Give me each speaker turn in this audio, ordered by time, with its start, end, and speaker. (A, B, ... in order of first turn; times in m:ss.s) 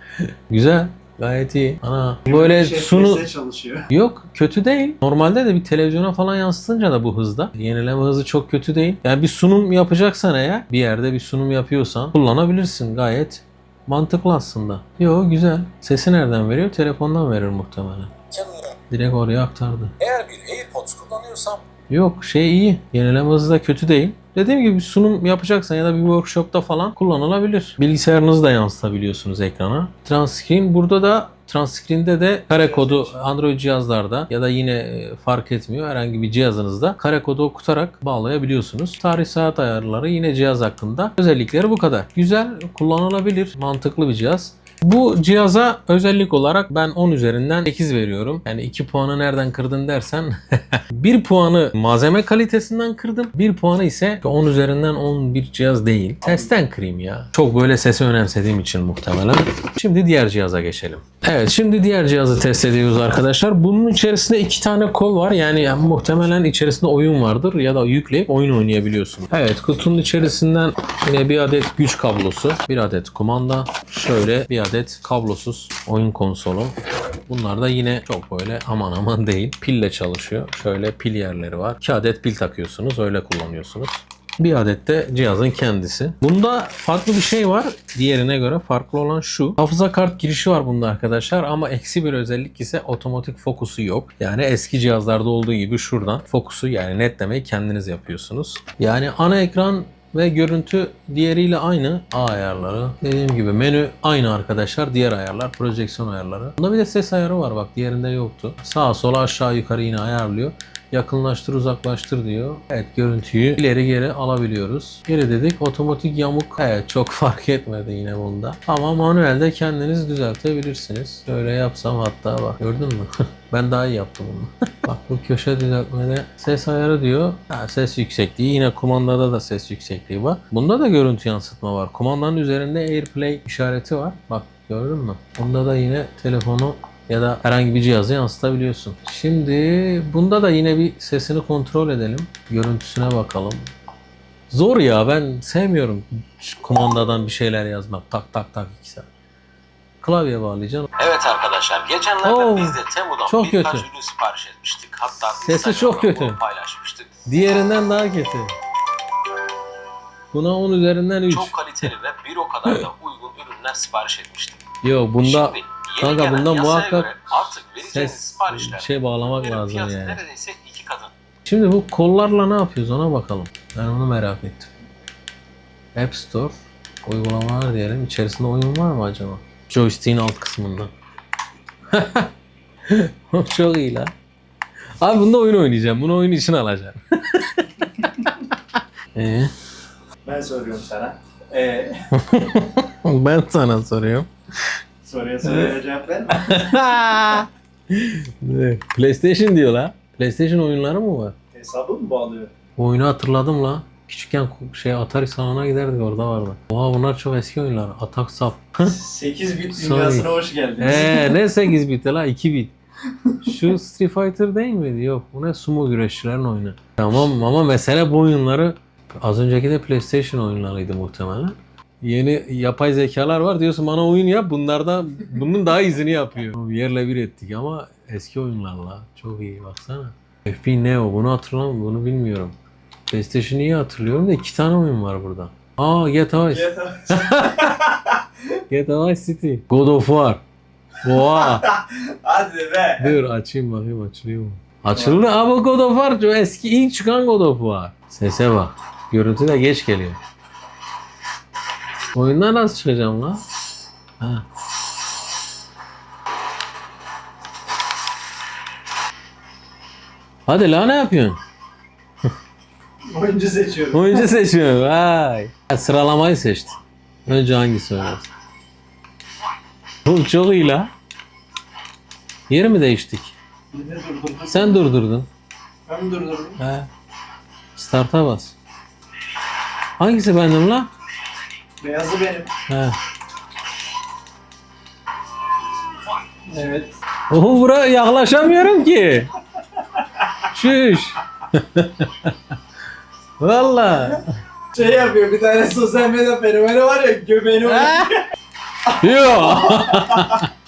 0:00.5-0:03.3 A
0:02.3-0:03.9 B
0:03.9-0:20.0 A
0:20.0-0:21.6 B
0:21.9-1:16.8 A
0:32.6-0:33.1 B
0:56.2-0:56.5 B
1:17.3-2:23.7 A
2:24.5-2:29.1 A
2:30.0-2:30.9 A
2:31.0-2:37.1 C
2:32.2-2:33.9 A
2:35.2-2:36.4 A
2:37.3-2:38.5 A
2:40.3-2:41.5 A
2:41.5-2:44.5 C
2:44.8-2:50.2 A
2:45.2-2:51.0 C
2:51.4-2:54.7 A
2:56.0-3:00.9 A
3:01.9-3:02.3 A
3:02.9-3:04.1 A
3:05.0-3:08.5 A
3:09.2-3:09.5 A
3:10.2-3:12.0 B
3:12.1-3:14.3 A
3:15.0-3:16.7 B
3:15.4-3:15.7 A
3:16.3-3:21.4 A
3:21.5-3:22.5 B
3:22.8-3:29.0 A
3:28.8-3:31.4 B
3:29.7-3:32.7 A
3:33.4-3:52.6 A
3:53.1-3:57.8 A
3:56.4-3:58.5 B
3:58.7-4:00.4 A
4:01.0-4:01.7 A
4:01.1-4:03.2 B
4:03.0-4:10.2 A
4:05.0-4:05.2 B
4:12.1-4:13.4 A
4:14.2-4:14.5 A
4:20.5-4:21.4 A
4:23.1-4:24.3 B
4:23.9-4:28.3 A
4:30.0-4:30.9 A
4:32.5-4:33.4 A
4:33.7-4:34.8 B
4:34.5-4:35.3 A
4:35.9-4:36.6 B
4:36.6-4:36.9 A
4:37.8-4:38.6 A
4:40.0-4:40.9 A
4:41.8-4:42.5 B
4:42.7-4:43.0 A
4:46.5-4:46.9 B
4:47.3-4:49.3 A
4:50.4-4:52.5 A
4:53.4-4:54.4 A
4:54.7-4:58.3 B
4:57.6-4:58.1 A
4:58.9-5:00.5 A
4:58.9-5:00.5 B